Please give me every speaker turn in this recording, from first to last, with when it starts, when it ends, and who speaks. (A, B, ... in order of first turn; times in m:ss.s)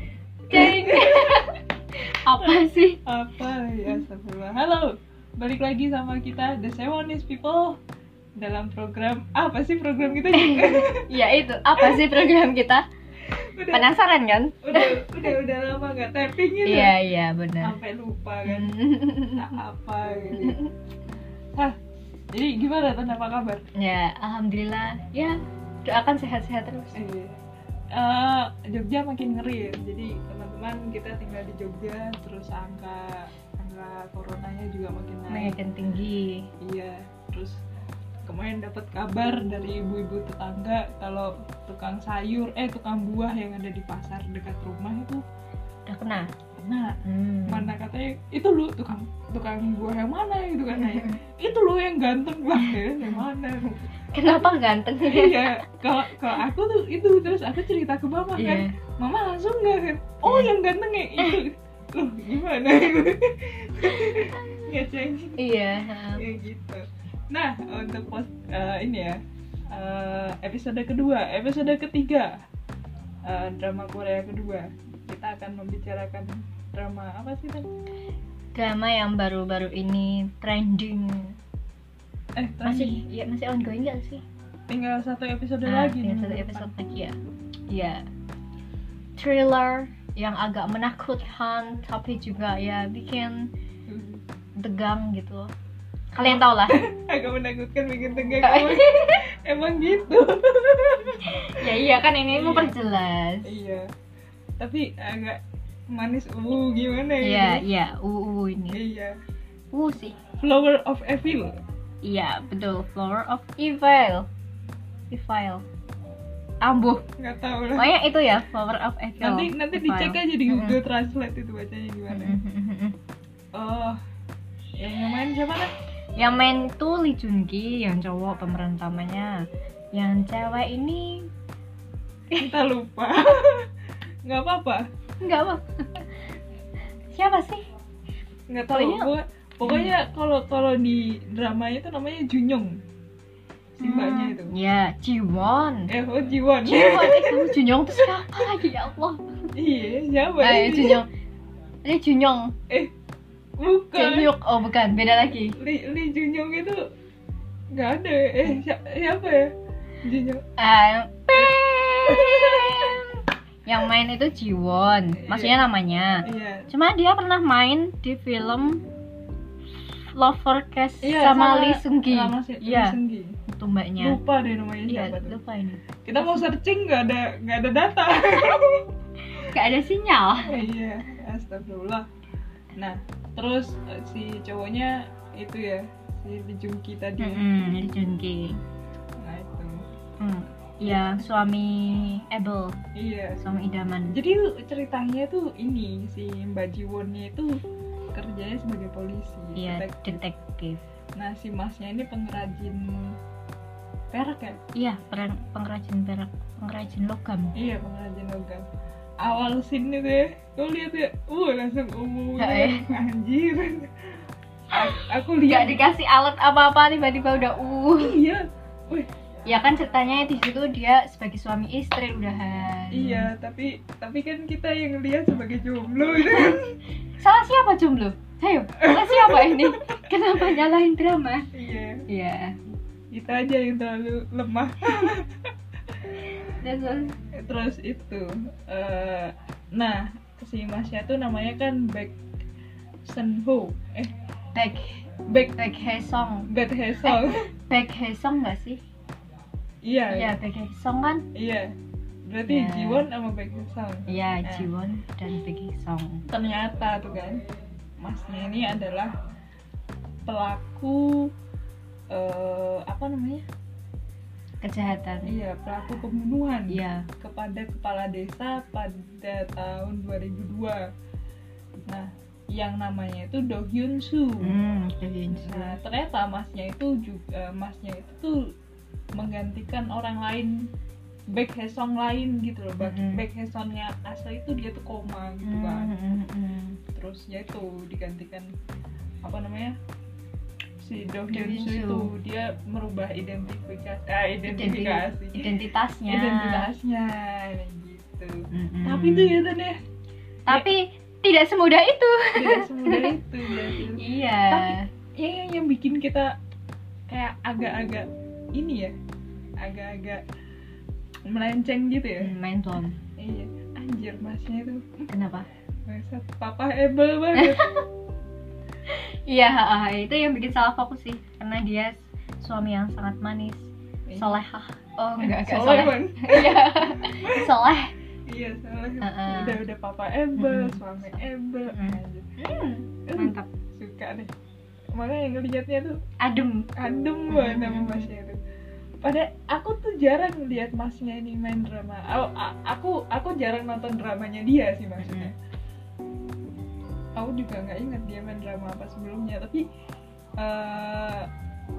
0:00.5-0:03.0 A
0:00.5-0:01.5 B
0:02.3-0:07.8 B
0:08.4-0:11.1 B
0:10.3-0:12.8 A
0:11.8-0:12.2 B
0:13.3-0:13.9 B
0:13.7-0:15.2 A
0:14.6-0:16.9 B
0:16.6-0:17.8 A
0:17.6-0:18.7 B
0:18.4-0:19.5 A
0:19.3-0:20.6 B
0:20.4-0:20.7 A
0:22.3-0:23.6 B
0:23.8-0:27.0 A
0:26.9-0:27.4 B
0:27.9-0:35.6 B
0:35.3-0:36.5 A
0:36.6-0:37.5 B
0:38.2-0:45.2 B
0:45.9-0:46.3 A
0:46.6-1:05.4 B
0:47.0-0:47.7 A
0:50.9-0:51.2 A
0:54.1-0:55.6 A
0:58.4-0:58.7 A
1:00.2-1:00.5 A
1:04.0-1:04.4 A
1:05.4-1:06.2 A
1:06.1-1:09.2 B
1:09.7-1:12.3 B
1:13.2-1:17.7 B
1:18.5-1:21.4 A
1:22.4-1:23.0 B
1:22.6-1:24.2 A
1:24.7-1:26.7 B
1:25.6-1:27.2 A
1:27.7-1:28.0 A
1:29.2-1:33.5 A
1:33.9-1:34.2 B
1:34.6-1:35.5 A
1:36.1-1:36.8 A
1:36.2-1:41.7 B
1:38.4-1:39.2 A
1:41.4-1:43.5 A
1:42.3-1:42.7 B
1:43.4-1:43.9 B
1:44.6-1:45.4 B
1:45.9-1:47.6 B
1:47.2-1:48.8 A
1:48.7-1:49.1 B
1:49.7-1:50.2 A
1:50.4-1:51.5 B
1:52.0-1:54.3 A
1:55.1-1:55.6 A
1:56.6-1:57.0 A
1:57.2-1:57.9 B
1:57.8-2:00.8 A
1:59.2-2:02.4 B
2:02.1-2:03.0 A
2:03.5-2:04.0 B
2:04.8-2:05.7 B
2:06.2-2:09.4 A
2:09.9-2:11.3 A
2:12.3-2:13.7 B
2:14.2-2:14.8 B
2:15.2-2:16.0 A
2:17.1-2:17.6 A
2:18.5-2:22.8 B
2:18.7-2:19.1 A
2:19.6-2:19.9 A
2:23.8-2:24.5 B
2:23.8-2:25.9 A
2:25.9-2:28.3 B
2:26.6-2:29.2 A
2:29.5-2:31.0 B
2:30.4-2:31.1 A
2:31.8-2:32.5 A
2:33.6-2:34.3 B
2:33.9-2:35.6 A
2:35.6-2:36.8 B
2:37.7-2:39.5 B
2:40.0-2:40.4 B
2:40.6-2:48.8 A
2:42.1-2:42.8 B
2:45.2-2:45.6 B
2:46.2-2:46.7 B
2:50.1-2:53.0 A
2:51.0-2:53.3 B
2:53.5-2:54.2 A
2:54.0-2:55.4 B
2:54.9-2:56.5 A
2:56.0-2:58.8 B
2:59.4-3:00.5 A
3:00.4-3:02.0 B
3:02.8-3:07.7 B
3:07.2-3:08.6 A
3:09.2-3:09.8 B
3:10.2-3:12.8 A
3:10.8-3:11.2 B
3:12.9-3:13.4 B
3:13.4-3:14.2 A
3:14.1-3:17.5 B
3:18.1-3:20.2 B
3:19.6-3:20.8 A
3:21.2-3:23.1 B
3:24.1-3:24.6 B
3:24.8-3:27.5 A
3:27.6-3:28.6 B
3:29.2-3:33.9 B
3:32.4-3:33.0 A
3:34.7-3:35.8 B
3:35.4-3:38.2 A
3:38.0-3:39.1 B
3:39.5-3:43.3 A
3:42.9-3:46.8 B
3:47.2-3:51.5 A
3:48.8-3:49.9 B
3:51.5-3:52.0 B
3:52.1-3:52.6 A
3:53.1-3:55.4 B
3:56.6-3:57.2 A
3:57.4-4:02.1 B
4:03.0-4:04.1 B
4:04.5-4:06.5 A
4:06.5-4:07.5 B
4:07.0-4:08.8 A
4:09.8-4:10.3 B
4:10.1-4:11.3 A
4:11.3-4:11.7 B
4:12.3-4:14.7 B
4:12.5-4:13.0 A
4:14.1-4:16.2 A
4:16.3-4:17.4 B
4:18.0-4:19.1 B
4:20.3-4:21.3 B
4:22.1-4:23.4 B
4:24.6-4:25.3 A
4:25.2-4:30.8 B
4:26.7-4:27.1 A
4:31.9-4:34.5 B
4:34.4-4:35.8 A
4:35.3-4:38.4 B
4:39.2-4:40.7 B
4:41.3-4:45.9 B
4:42.8-4:43.2 A
4:45.4-4:46.8 A
4:46.9-4:48.5 B
4:49.2-4:49.8 B
4:50.8-4:55.5 B
4:51.3-4:52.1 A
4:54.4-4:56.7 A
4:56.1-4:59.8 B
4:58.5-4:59.4 A
5:00.5-5:03.2 A
5:02.3-5:06.3 B
5:04.0-5:04.8 A
5:07.1-5:08.9 B
5:09.6-5:10.2 B
5:11.3-5:12.3 B
5:12.2-5:13.0 A
5:13.2-5:15.0 B
5:15.1-5:15.5 A
5:15.9-5:17.7 B
5:17.4-5:17.8 A
5:18.9-5:27.9 A
5:24.1-5:24.4 B
5:25.2-5:27.5 B
5:28.3-5:32.3 B
5:29.0-5:29.6 A
5:30.4-5:33.5 A
5:33.1-5:34.3 B
5:35.0-5:36.0 B
5:36.2-5:36.7 A
5:36.8-5:38.4 B
5:37.3-5:38.1 A
5:39.0-5:45.3 B
5:45.0-5:45.3 A
5:47.2-5:49.6 B
5:50.4-5:51.3 B